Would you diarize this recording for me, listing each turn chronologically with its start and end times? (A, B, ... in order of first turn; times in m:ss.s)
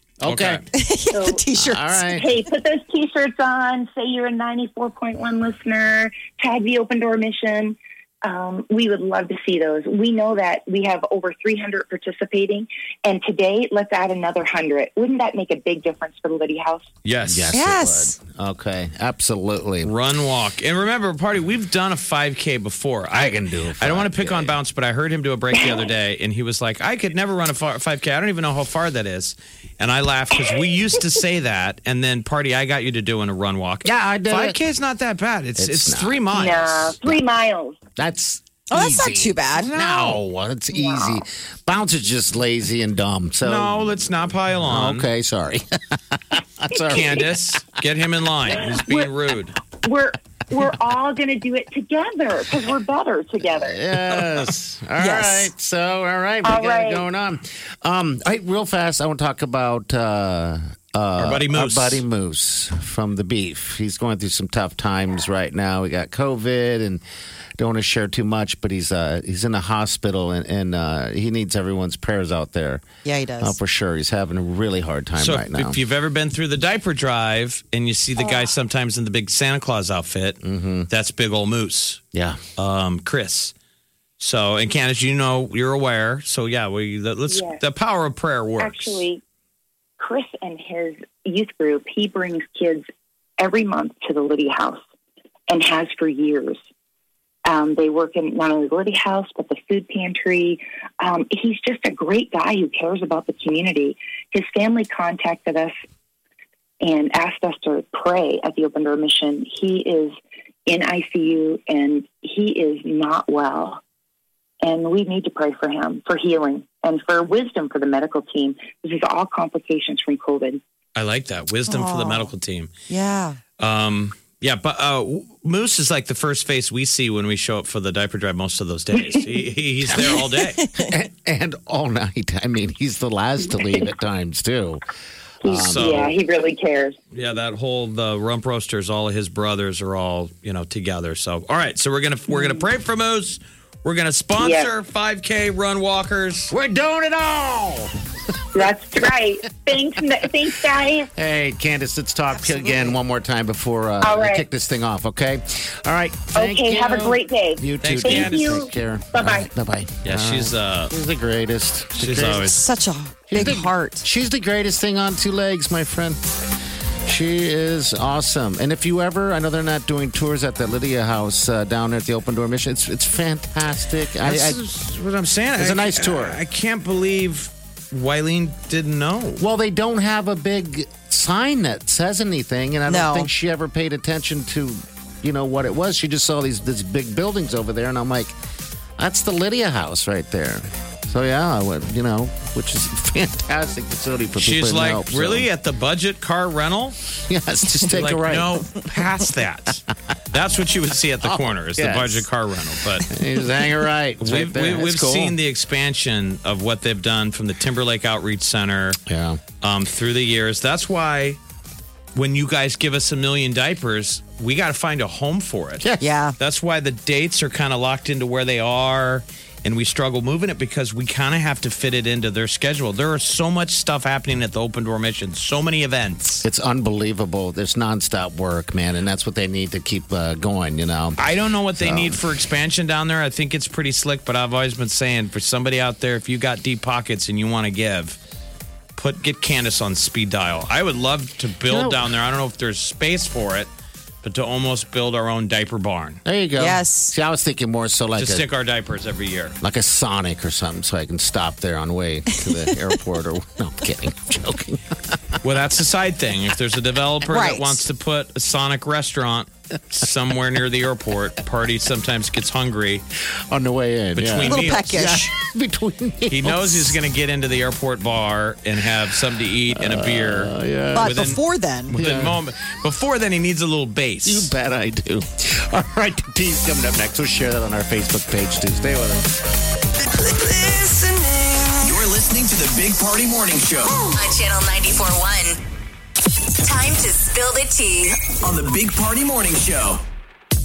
0:00.2-0:00.6 A
0:00.2-0:00.6 B
0:00.7-0:02.1 C
0:01.1-0:01.4 D
0:01.6-0:02.3 A
0:02.1-0:16.9 D
0:17.0-0:17.5 B
0:17.2-0:19.9 A
0:17.5-0:18.2 C
0:19.8-0:37.0 B
0:23.1-0:24.6 A
0:25.5-0:25.8 D
0:33.8-0:34.6 A
0:35.6-0:36.2 A
0:36.3-0:37.8 D
0:38.0-0:44.0 A
0:38.7-0:39.7 C
0:39.7-0:40.2 B
0:40.7-0:41.2 D
0:43.4-0:45.1 B
0:44.6-0:47.4 A
0:46.9-0:49.6 B
0:48.6-0:49.1 D
0:49.8-0:53.8 D
0:53.6-1:07.0 A
0:55.0-0:55.5 C
0:56.4-0:57.0 D
1:01.2-1:02.0 B
1:07.6-1:12.8 A
1:13.0-1:13.6 C
1:13.4-1:15.8 A
1:15.2-1:20.4 B
1:18.2-1:18.4 D
1:20.4-1:20.9 A
1:20.9-1:22.0 B
1:22.1-1:22.4 A
1:22.6-1:23.5 B
1:24.2-1:29.0 B
1:27.3-1:27.6 D
1:28.6-1:29.2 D
1:30.0-1:32.8 D
1:33.4-1:34.8 D
1:35.5-1:36.6 D
1:37.4-1:45.7 D
1:46.8-1:50.1 D
1:50.7-1:53.8 D
1:54.6-2:00.6 D
2:01.0-2:02.7 B
2:01.7-2:02.3 C
2:02.9-2:03.4 C
2:03.6-2:10.6 B
2:09.0-2:09.2 D
2:10.6-2:10.9 C
2:10.8-2:14.8 A
2:15.4-2:17.0 D
2:15.4-2:16.1 A
2:15.5-2:16.1 B
2:17.1-2:26.5 B
2:22.3-2:22.6 D
2:24.4-2:24.7 D
2:26.5-2:27.9 A
2:28.5-2:31.1 D
2:31.1-2:42.5 A
2:32.4-2:32.9 C
2:34.0-2:34.4 D
2:36.3-2:39.5 D
2:37.8-2:38.6 B
2:40.0-2:40.9 B
2:42.0-2:42.6 B
2:42.4-2:44.0 C
2:43.3-2:46.2 A
2:47.0-2:54.6 A
2:54.2-2:59.4 B
2:55.6-2:56.4 A
2:59.4-3:08.3 A
3:02.9-3:03.3 C
3:09.0-3:15.5 A
3:14.4-3:17.0 B
3:17.3-3:18.6 A
3:17.9-3:23.1 B
3:21.2-3:22.3 A
3:23.0-3:25.4 A
3:24.2-3:29.0 B
3:29.0-3:29.4 A
3:29.6-3:31.4 B
3:32.1-3:35.9 B
3:35.8-3:36.1 A
3:36.0-3:36.3 C
3:36.4-3:46.4 B
3:46.4-3:51.2 A
3:51.2-3:58.2 B
3:51.8-3:52.2 A
3:59.0-4:03.7 B
4:01.7-4:02.1 A
4:04.2-4:06.2 B
4:06.2-4:08.4 A
4:06.6-4:07.1 C
4:08.2-4:09.6 B
4:09.6-4:15.4 A
4:15.4-4:23.0 B
4:17.3-4:17.8 C
4:23.4-4:26.9 A
4:24.1-4:24.8 B
4:24.4-4:25.3 C
4:26.3-4:31.4 B
4:29.7-4:31.2 A
4:30.9-4:31.9 C
4:31.9-4:34.5 B
4:31.9-4:32.4 A
4:34.2-4:39.3 A
4:40.6-4:41.1 C
4:41.8-4:44.0 E
4:44.1-4:45.6 F
4:46.6-4:48.3 F
4:48.4-4:50.0 E